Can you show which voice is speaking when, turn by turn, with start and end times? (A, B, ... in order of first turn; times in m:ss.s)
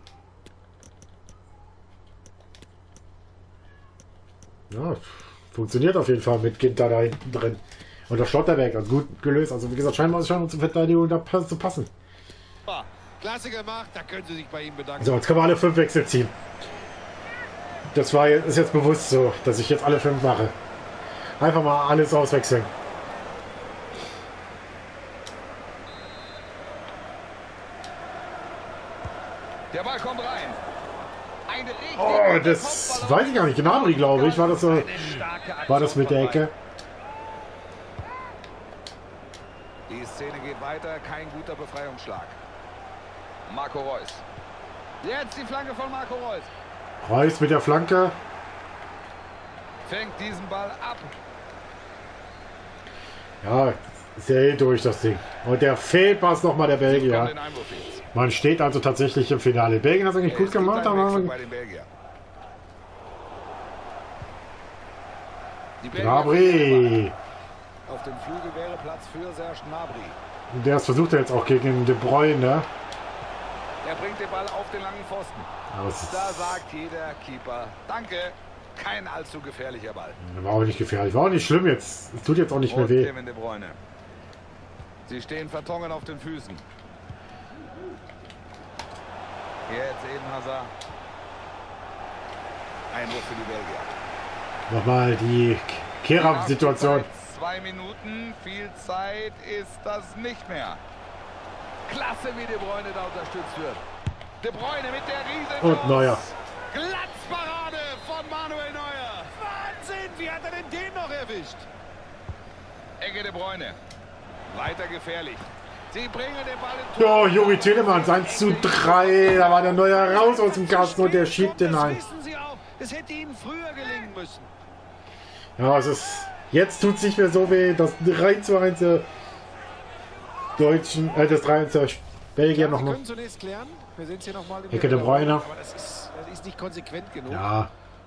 0:04.7-0:11.9 A
0:13.2-0:15.2 B
0:15.0-0:16.3 A
0:17.9-0:20.6 A
0:21.4-0:22.7 A
0:29.7-0:30.6 C
0:31.5-0:36.5 C
0:32.0-0:36.5 A
0:39.9-0:42.4 C
0:43.5-0:44.2 C
0:45.0-0:46.5 C
0:47.0-0:48.2 A
0:49.8-0:51.1 C
0:53.4-0:57.3 A
0:56.8-0:58.0 C
0:58.1-1:01.4 A
1:00.2-1:01.9 C
1:05.8-1:07.1 C
1:05.9-1:07.2 A
1:07.9-1:10.2 C
1:10.5-1:12.7 A
1:13.8-1:15.5 C
1:15.7-1:16.6 A
1:16.1-1:20.2 C
1:20.2-1:23.1 A
1:22.6-1:23.8 C
1:25.1-1:26.6 C
1:29.7-1:30.7 C
1:32.9-1:33.9 C
1:34.7-1:37.1 A
1:36.2-1:40.8 C
1:41.9-1:43.8 C
1:44.4-1:49.3 C
1:45.6-1:46.3 A
1:49.4-1:51.7 B
1:53.0-1:53.8 C
1:54.5-1:55.5 C
1:55.9-1:56.6 B
1:56.1-1:59.8 C
1:57.0-2:02.0 A
1:59.7-2:04.5 B
2:05.6-2:09.1 A
2:10.6-2:13.0 A
2:12.5-2:17.5 B
2:14.7-2:15.5 A
2:17.3-2:17.7 A